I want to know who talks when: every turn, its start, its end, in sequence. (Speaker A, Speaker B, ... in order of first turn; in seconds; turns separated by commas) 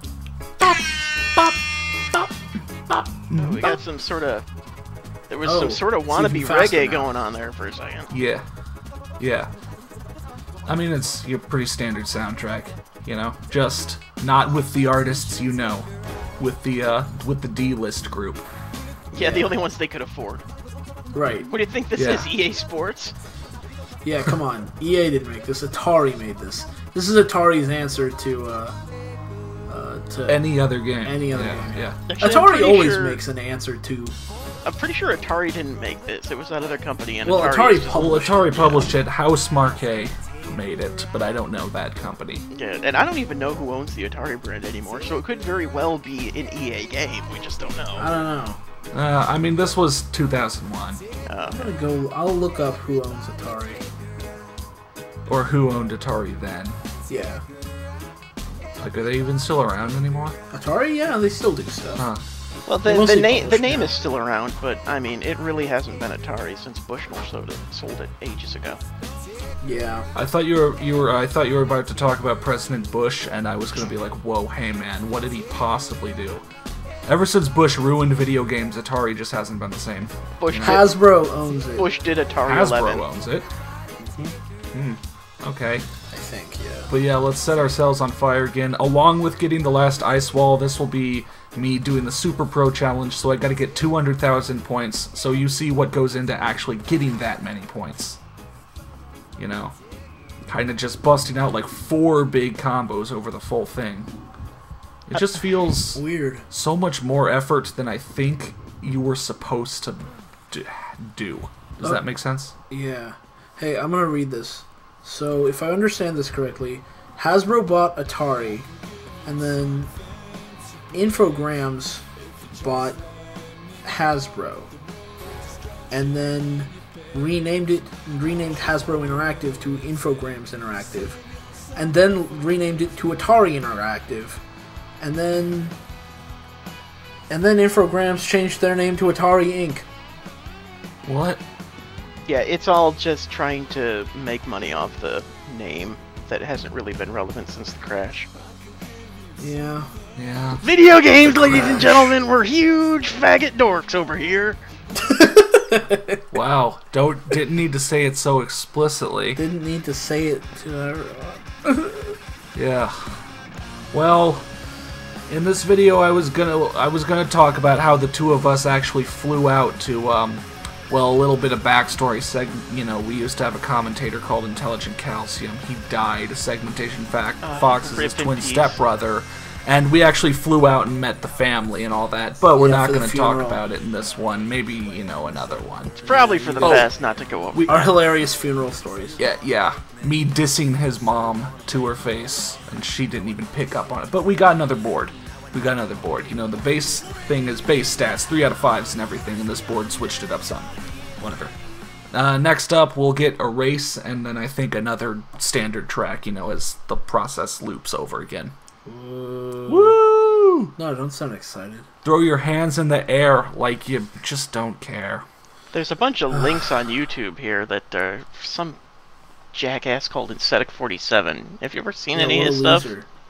Speaker A: 0.6-1.6, Speaker A: 2.9-3.8, Speaker B: 3.4-4.5, Speaker B: 5.3-8.1, Speaker C: 5.4-7.2, Speaker A: 8.1-8.4, Speaker A: 9.2-9.5, Speaker A: 10.7-15.9, Speaker A: 16.4-18.4, Speaker B: 19.1-20.4, Speaker C: 19.2-19.6, Speaker C: 21.1-21.5, Speaker B: 21.5-23.1, Speaker A: 22.0-22.3, Speaker C: 24.0-28.8, Speaker C: 29.7-34.2, Speaker A: 30.3-32.0, Speaker B: 32.1-33.2, Speaker B: 34.6-38.1, Speaker C: 37.2-39.0, Speaker A: 37.9-42.5, Speaker B: 42.5-48.1, Speaker C: 48.0-48.6, Speaker A: 48.9-51.0, Speaker B: 51.3-51.7, Speaker C: 51.5-53.8, Speaker A: 55.3-56.8, Speaker C: 57.1-57.4, Speaker A: 58.8-60.4, Speaker C: 60.5-62.0, Speaker A: 62.0-62.2, Speaker B: 62.7-68.8, Speaker C: 62.8-64.0, Speaker C: 69.6-70.1, Speaker A: 70.1-76.4, Speaker A: 77.1-80.9, Speaker B: 80.4-81.0, Speaker C: 80.6-81.9, Speaker B: 81.8-83.1, Speaker A: 82.4-83.5, Speaker C: 84.0-84.3, Speaker A: 84.7-85.8, Speaker C: 86.1-86.9, Speaker A: 86.9-98.2, Speaker A: 99.4-99.8, Speaker A: 100.5-104.1, Speaker A: 105.1-112.5, Speaker C: 105.1-105.4, Speaker C: 105.9-106.5, Speaker C: 112.7-118.7, Speaker C: 119.3-119.9, Speaker C: 120.9-122.0, Speaker C: 122.6-123.0, Speaker C: 123.8-124.7, Speaker C: 125.9-131.2, Speaker C: 131.8-134.4, Speaker C: 135.0-135.8, Speaker C: 137.3-139.9, Speaker A: 141.1-141.4, Speaker B: 142.3-148.3, Speaker C: 149.4-149.9, Speaker A: 150.2-150.7, Speaker B: 150.6-154.6, Speaker A: 151.3-152.1, Speaker C: 151.4-151.9, Speaker C: 155.0-156.2, Speaker A: 156.3-159.4, Speaker C: 159.3-162.2, Speaker A: 162.6-163.2, Speaker A: 163.9-164.5, Speaker A: 165.3-186.0, Speaker B: 177.4-178.8, Speaker C: 182.5-183.6, Speaker B: 186.0-187.9, Speaker C: 186.0-186.9, Speaker A: 186.6-186.9, Speaker C: 187.5-189.2, Speaker A: 189.2-201.5, Speaker A: 202.1-208.5, Speaker C: 208.9-210.0, Speaker A: 209.7-210.7, Speaker C: 210.8-211.9, Speaker A: 212.0-215.2, Speaker B: 215.7-218.8, Speaker B: 219.5-222.9, Speaker C: 222.1-223.1